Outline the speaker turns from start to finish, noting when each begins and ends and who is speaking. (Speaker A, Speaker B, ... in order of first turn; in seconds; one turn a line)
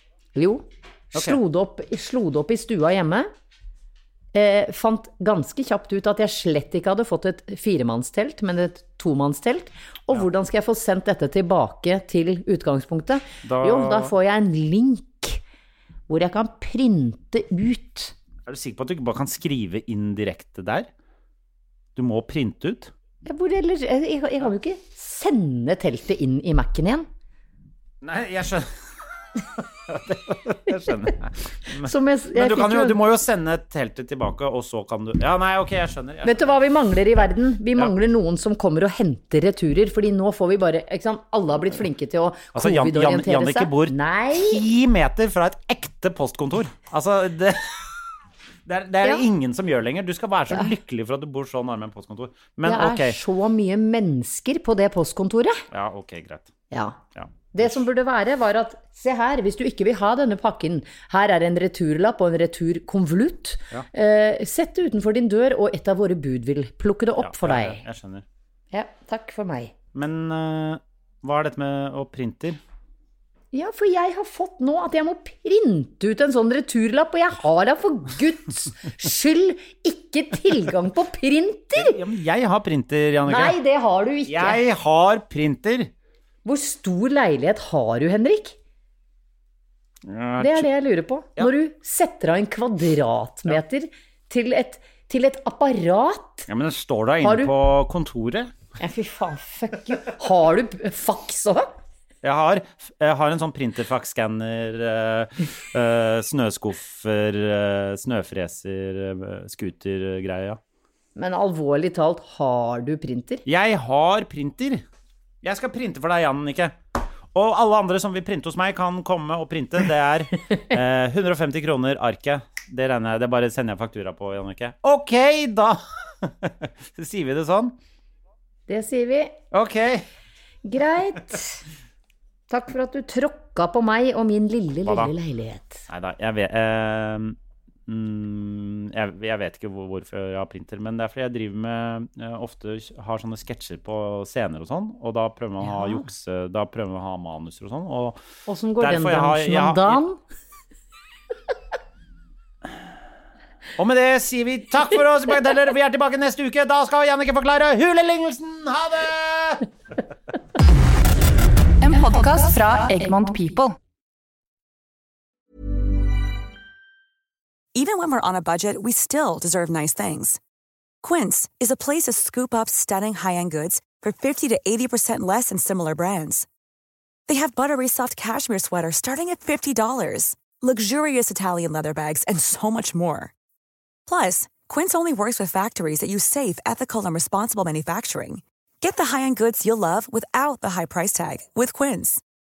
Speaker A: 0.3-3.3
Speaker A: 4.3-15.4
Speaker B: 13.4-14.1
Speaker A: 16.1-18.1
Speaker B: 18.5-20.9
Speaker B: 22.0-22.9
Speaker A: 23.2-27.1
Speaker B: 28.0-28.7
Speaker B: 29.6-36.3
Speaker A: 31.8-33.0
Speaker A: 36.2-44.6
Speaker B: 42.5-47.9
Speaker B: 48.7-53.2
Speaker A: 52.6-55.6
Speaker B: 55.7-56.5
Speaker A: 56.7-57.0
Speaker B: 57.2-57.7
Speaker A: 57.5-67.8
Speaker B: 67.2-68.2
Speaker A: 68.7-69.7
Speaker B: 70.0-72.6
Speaker A: 73.5-82.0
Speaker B: 81.8-83.6
Speaker A: 83.3-84.6
Speaker B: 84.3-85.9
Speaker A: 86.5-88.6
Speaker B: 90.1-90.7
Speaker A: 90.4-96.5
Speaker B: 96.5-98.5
Speaker A: 97.2-97.5
Speaker A: 98.8-101.7
Speaker B: 102.2-110.6
Speaker A: 111.2-113.4
Speaker B: 113.5-114.8
Speaker B: 115.4-116.7
Speaker B: 117.3-127.7
Speaker A: 128.7-129.4
Speaker B: 129.5-130.1
Speaker A: 130.7-131.6
Speaker A: 132.5-135.9
Speaker B: 134.8-135.1
Speaker B: 135.9-137.4
Speaker B: 137.9-148.2
Speaker A: 145.7-146.0
Speaker A: 148.5-150.2
Speaker B: 148.8-150.0
Speaker B: 153.8-159.7
Speaker C: 161.8-163.8
Speaker D: 167.7-170.4
Speaker D: 171.0-176.5
Speaker D: 177.3-183.3
Speaker D: 184.1-192.2